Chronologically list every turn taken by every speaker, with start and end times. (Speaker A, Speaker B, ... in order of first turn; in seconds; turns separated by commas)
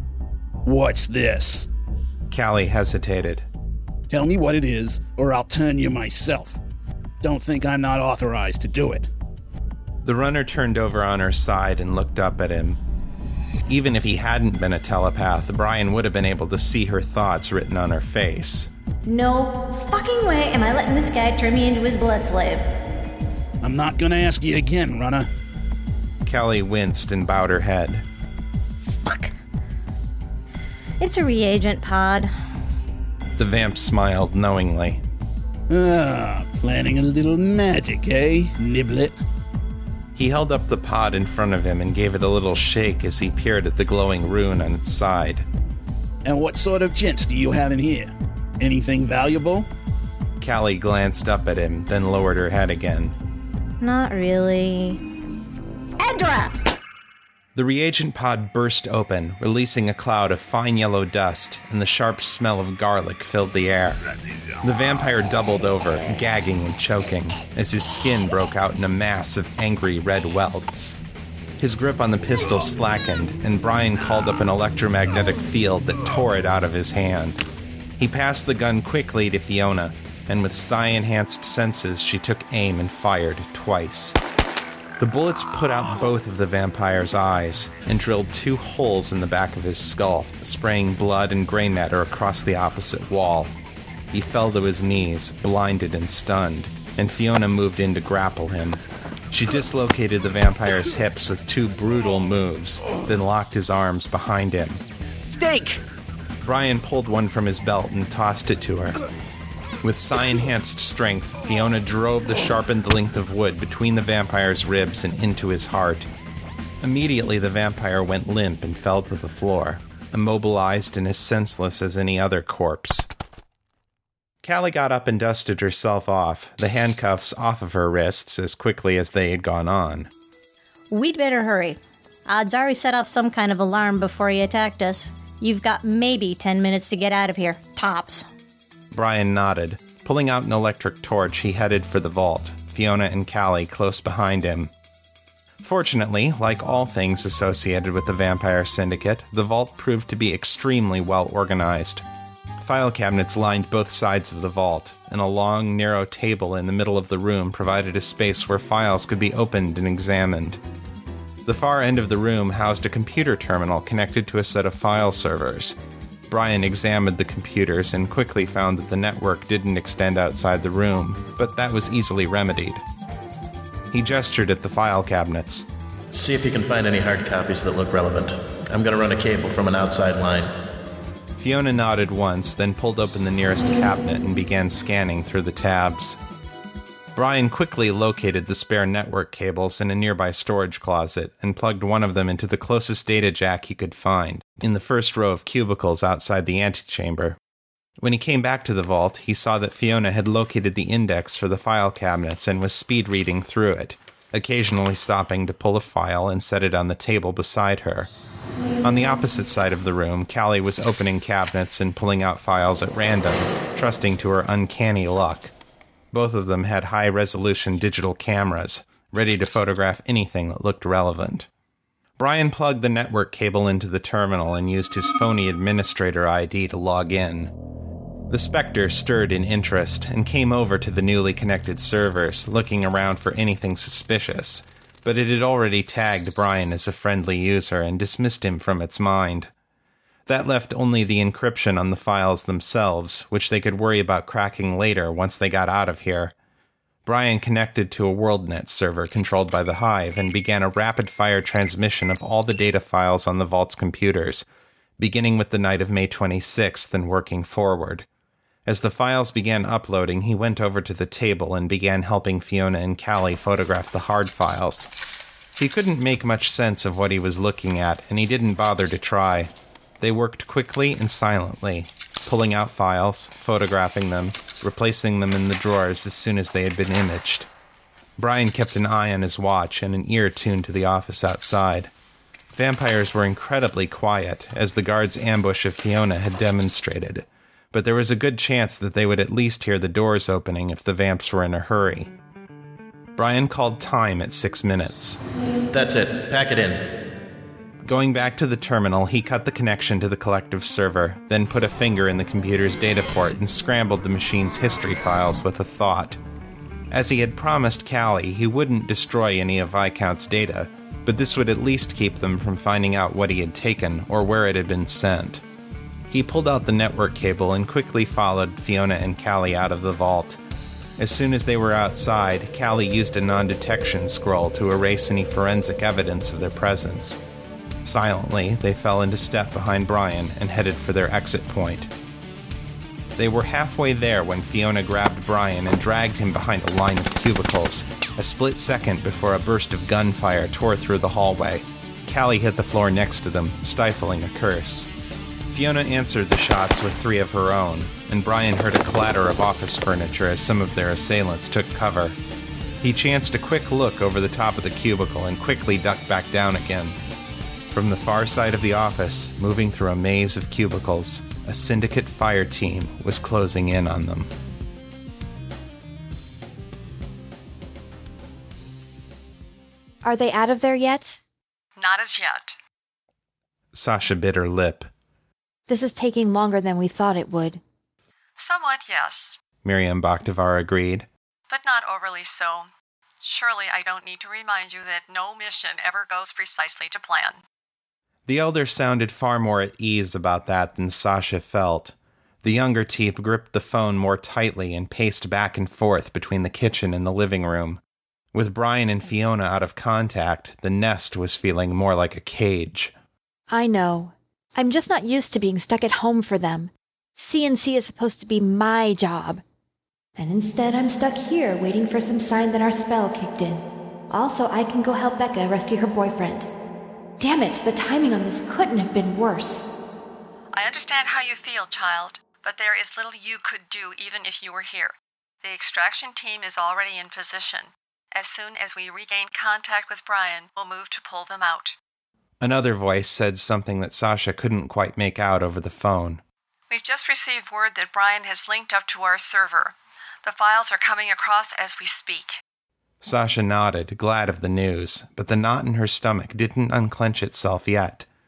Speaker A: 0.6-1.7, Speaker B: 2.3-3.5, Speaker A: 4.1-6.6, Speaker A: 7.2-9.1, Speaker B: 10.0-12.8, Speaker B: 13.7-18.7, Speaker C: 19.0-22.7, Speaker A: 23.6-25.3, Speaker B: 26.2-28.0, Speaker C: 28.9-29.3, Speaker C: 31.0-32.3, Speaker B: 33.4-35.0, Speaker A: 35.7-39.2, Speaker B: 40.1-45.5, Speaker A: 46.2-49.7, Speaker B: 50.4-53.1, Speaker C: 53.8-55.0, Speaker C: 56.0-56.6, Speaker B: 57.5-64.0, Speaker B: 64.6-71.0, Speaker B: 71.6-77.4, Speaker B: 78.0-84.2, Speaker B: 85.0-93.5, Speaker B: 94.1-104.8, Speaker A: 105.3-105.8, Speaker B: 106.4-109.0, Speaker B: 109.8-116.1, Speaker B: 116.8-123.1, Speaker B: 124.4-130.1, Speaker C: 130.9-138.2, Speaker B: 138.9-144.7, Speaker B: 145.6-152.0, Speaker B: 152.6-160.6, Speaker B: 161.4-165.8, Speaker B: 166.3-172.8, Speaker B: 173.9-175.7, Speaker D: 176.1-180.5, Speaker B: 181.4-186.2, Speaker B: 187.1-197.4, Speaker B: 198.0-208.1, Speaker B: 208.8-215.5, Speaker B: 216.1-221.5, Speaker B: 222.2-227.5, Speaker B: 228.3-239.5, Speaker B: 240.3-246.3, Speaker B: 247.0-254.4, Speaker B: 255.0-258.1, Speaker B: 258.6-264.9, Speaker B: 265.6-277.5, Speaker B: 278.2-281.9, Speaker B: 282.5-292.1, Speaker B: 293.1-295.2, Speaker D: 295.7-296.9, Speaker B: 297.8-306.2, Speaker B: 306.9-315.4, Speaker B: 316.1-320.4, Speaker B: 321.0-327.2, Speaker B: 327.8-331.9, Speaker B: 333.2-344.9, Speaker B: 345.5-352.1, Speaker B: 352.8-357.0, Speaker B: 357.7-364.3, Speaker E: 370.0-371.2, Speaker F: 371.8-372.6, Speaker B: 373.7-374.9, Speaker E: 375.7-377.6, Speaker F: 378.4-379.4, Speaker B: 379.6-381.1, Speaker F: 381.5-382.7, Speaker F: 383.2-387.4, Speaker B: 388.3-397.8, Speaker B: 398.3-402.9, Speaker E: 403.5-409.4, Speaker E: 410.2-416.5, Speaker E: 417.2-419.7, Speaker F: 420.5-431.7, Speaker B: 432.4-436.2, Speaker F: 436.7-442.4, Speaker B: 443.0-448.1